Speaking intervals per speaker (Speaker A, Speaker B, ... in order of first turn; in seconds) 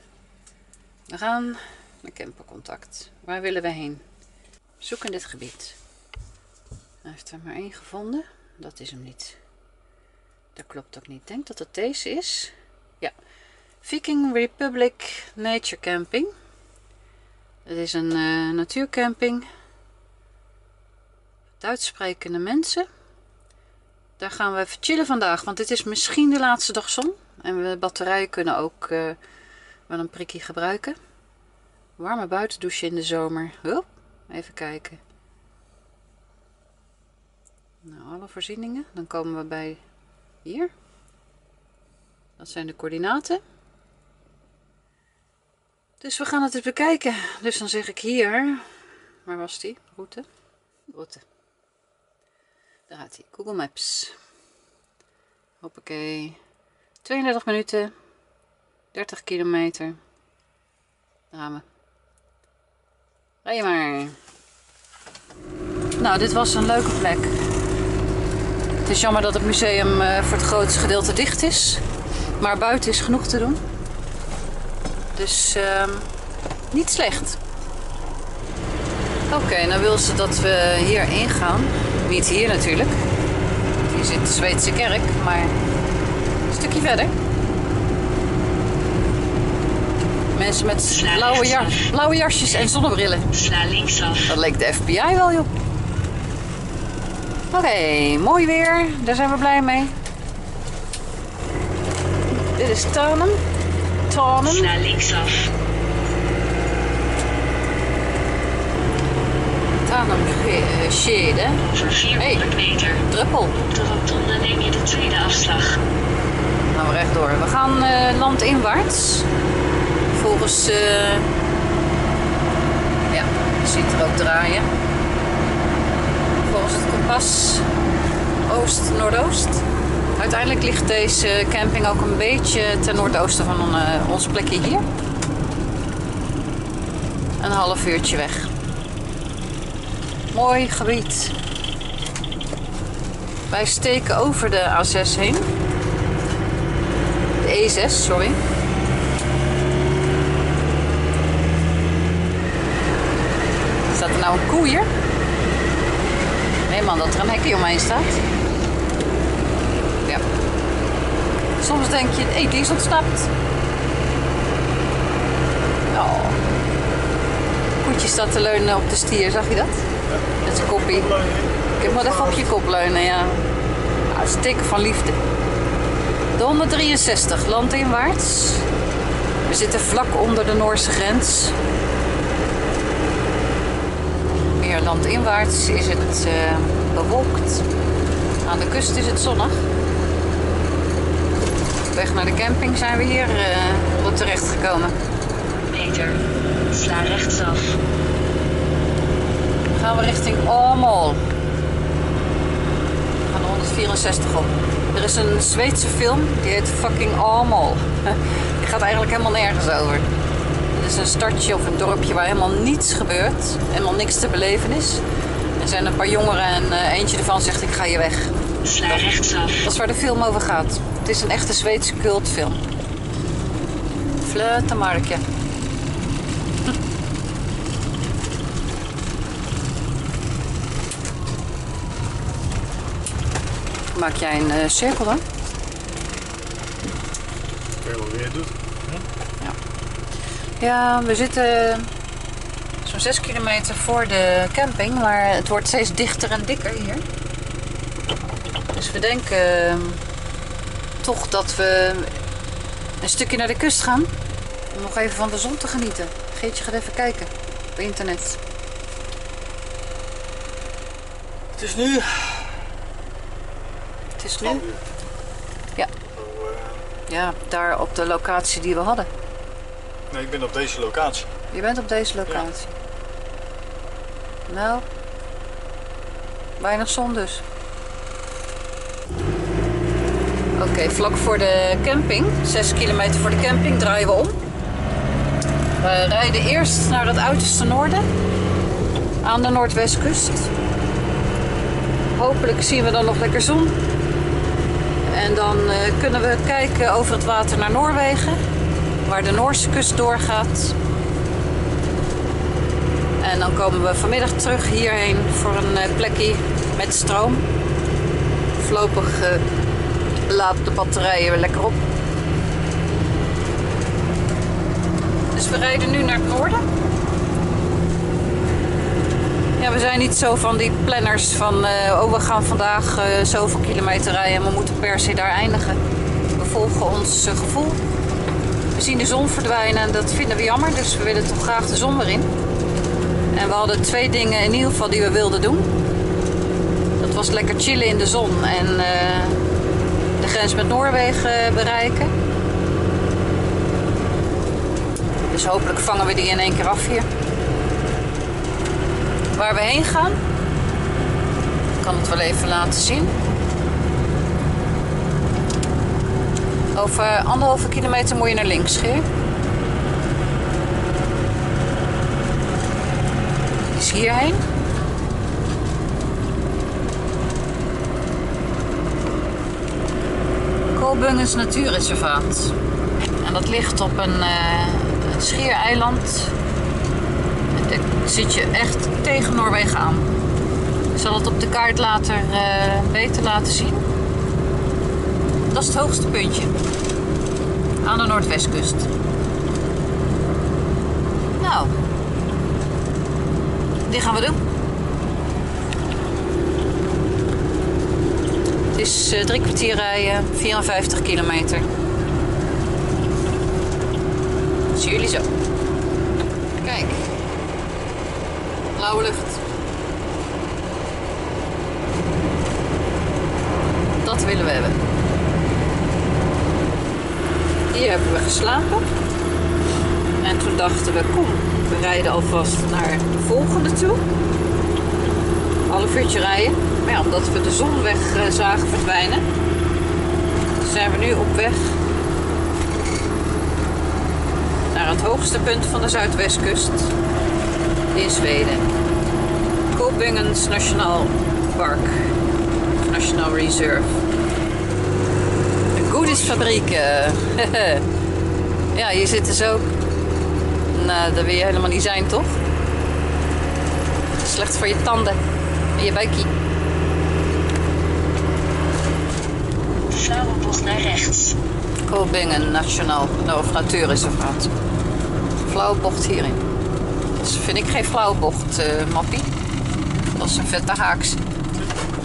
Speaker A: 1.1-4.0, 4.8-5.8, 7.0-9.4, 10.5-13.1, 13.8-16.3, 17.6-19.5, 21.6-22.9, 24.2-29.2, 29.9-31.0, 32.0-35.0, 37.8-39.8, 40.4-40.7, 42.4-43.4, 46.0-50.3, 50.9-51.2, 52.9-54.1, 55.6-56.4, 57.0-57.9, 58.9-60.0, 61.3-61.6, 63.4-64.2, 66.0-67.5, 68.8-71.8, 72.4-73.6, 75.1-76.1, 76.7-77.4, 79.3-83.0, 83.8-85.6, 86.5-87.1, 90.3-93.3, 94.3-95.5, 97.5-100.0, 102.5-103.4, 104.1-104.8, 109.8-113.7, 116.7-119.3, 120.1-121.3, 123.1-124.7, 126.4-127.7, 128.4-129.7, 130.2-134.8, 137.4-138.5, 140.3-141.3, 143.5-145.5, 147.4-148.4, 153.9-154.9, 156.7-158.2, 161.6-163.3, 165.9-166.4, 167.8-169.9, 170.4-171.2, 171.8-173.4, 174.1-175.2, 176.3-178.7, 179.4-181.6, 184.6-187.6, 188.4-189.7, 191.9-194.9, 199.7-201.2, 203.2-210.1, 210.7-215.0, 215.6-222.6, 224.2-225.2, 233.9-235.2, 240.6-241.9, 242.8-247.0, 248.7-250.0, 251.0-252.2, 253.0-254.1, 254.7-258.4, 264.2-264.6, 267.1-269.1, 271.5-272.8, 274.5-274.9, 276.6-277.4, 280.6-284.4, 285.8-288.1, 289.2-290.5, 292.1-293.8, 295.1-298.4, 299.0-300.8, 303.2-307.4, 308.6-309.4, 310.2-311.8, 315.3-316.6, 319.6-325.8, 326.3-327.8, 328.7-332.3, 333.3-335.7, 337.0-339.4, 340.2-342.1, 345.3-347.1, 349.3-350.2, 351.8-353.1, 356.7-359.1, 363.7-364.4, 370.7-372.5, 373.2-376.4, 377.5-380.1, 380.9-383.8, 385.5-386.5, 387.8-388.9, 391.4-391.7, 393.8-394.4, 398.7-401.7, 404.7-405.3, 406.6-407.0, 408.7-409.4, 414.0-414.8, 417.7-418.9, 420.2-424.0, 425.6-429.3, 430.6-431.8, 434.7-436.9, 437.9-438.7, 439.7-442.1, 442.8-444.0, 445.7-447.9, 448.7-449.7, 450.7-452.4, 454.2-455.2, 455.7-456.3, 461.8-464.5, 465.4-466.4, 467.1-469.3, 470.1-471.2
Speaker B: 91.0-91.8, 93.3-94.3, 104.5-105.5, 111.6-113.0, 113.7-115.8, 195.7-196.2, 196.7-197.8, 218.7-219.6, 459.9-461.4
Speaker C: 170.1-172.4, 237.8-239.0, 261.5-262.6, 264.4-264.8, 266.0-266.9, 270.1-271.3